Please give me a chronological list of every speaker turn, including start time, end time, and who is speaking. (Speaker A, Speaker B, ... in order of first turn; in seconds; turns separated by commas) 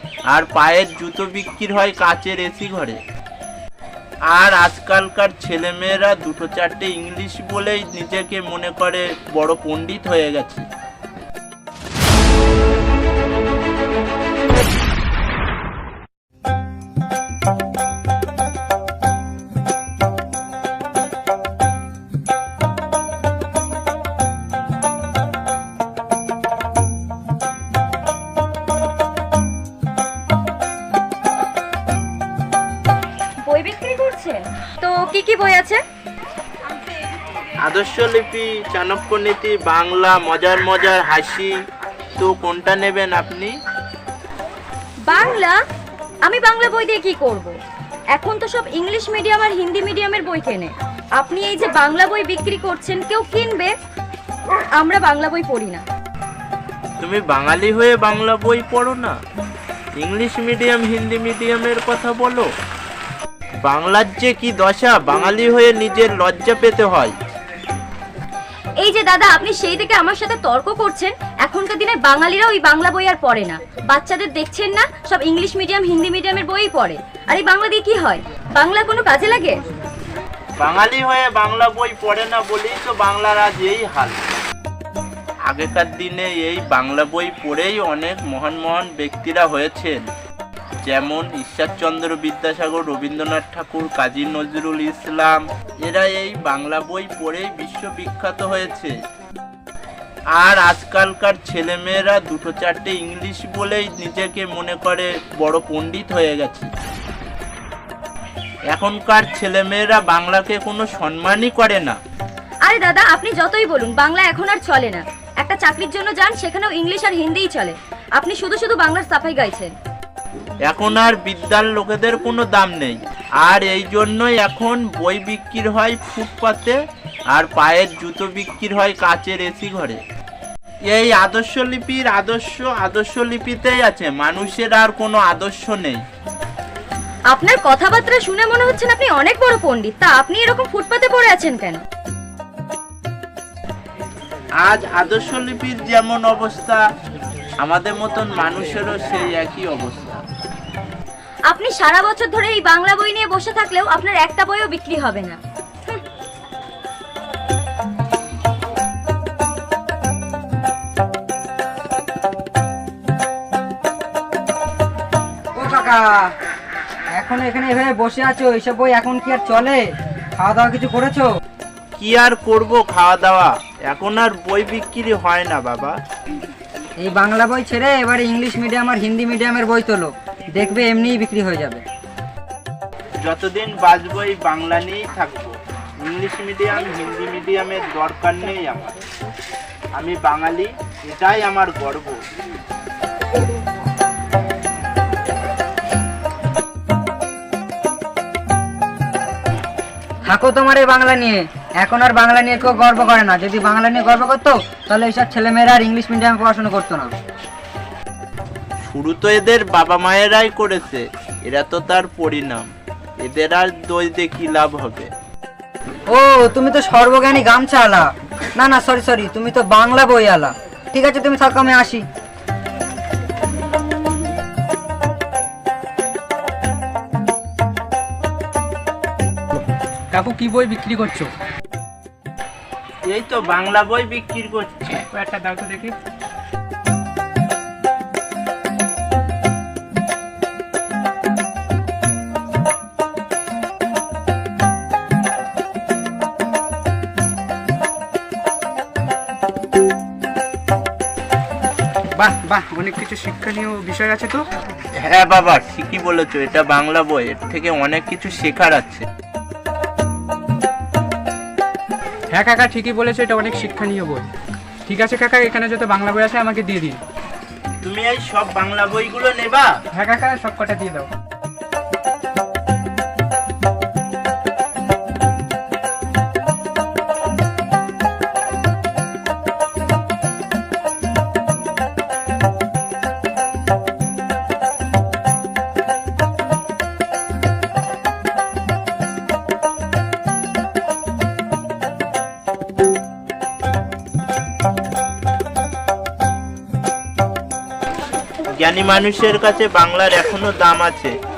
Speaker A: 0.3-3.0, Speaker A: 4.3-10.6, Speaker B: 33.4-35.8, Speaker A: 37.6-41.5, Speaker A: 42.2-43.5, Speaker B: 45.0-45.6, Speaker B: 46.2-47.5, Speaker B: 48.1-53.7, Speaker B: 54.8-55.8, Speaker A: 57.0-59.1, Speaker A: 60.0-62.5, Speaker A: 63.6-67.1, Speaker B: 68.8-79.6, Speaker A: 80.6-84.2, Speaker A: 85.5-90.0, Speaker A: 90.8-99.0, Speaker A: 100.3-106.7, Speaker A: 108.7-112.0, Speaker B: 112.7-119.7, Speaker A: 120.7-126.8, Speaker A: 127.3-130.0, Speaker A: 130.9-136.0, Speaker B: 137.3-141.8, Speaker A: 144.6-146.8, Speaker A: 147.6-150.2, Speaker B: 151.5-156.0, Speaker C: 165.5-166.3, Speaker C: 167.2-169.8, Speaker C: 170.4-171.3, Speaker A: 172.0-176.0, Speaker C: 177.0-181.8, Speaker A: 183.2-189.0, Speaker A: 189.9-192.2, Speaker C: 200.3-207.1, Speaker A: 208.8-212.7, Speaker A: 213.2-215.1, Speaker C: 216.1-222.0, Speaker D: 230.1-231.3, Speaker A: 233.1-235.1, Speaker D: 235.1-235.9, Speaker D: 252.1-254.4, Speaker A: 255.0-259.1, Speaker D: 262.3-264.2, Speaker D: 264.9-267.0, Speaker A: 267.8-269.7, Speaker D: 269.9-271.1, Speaker A: 298.6-301.1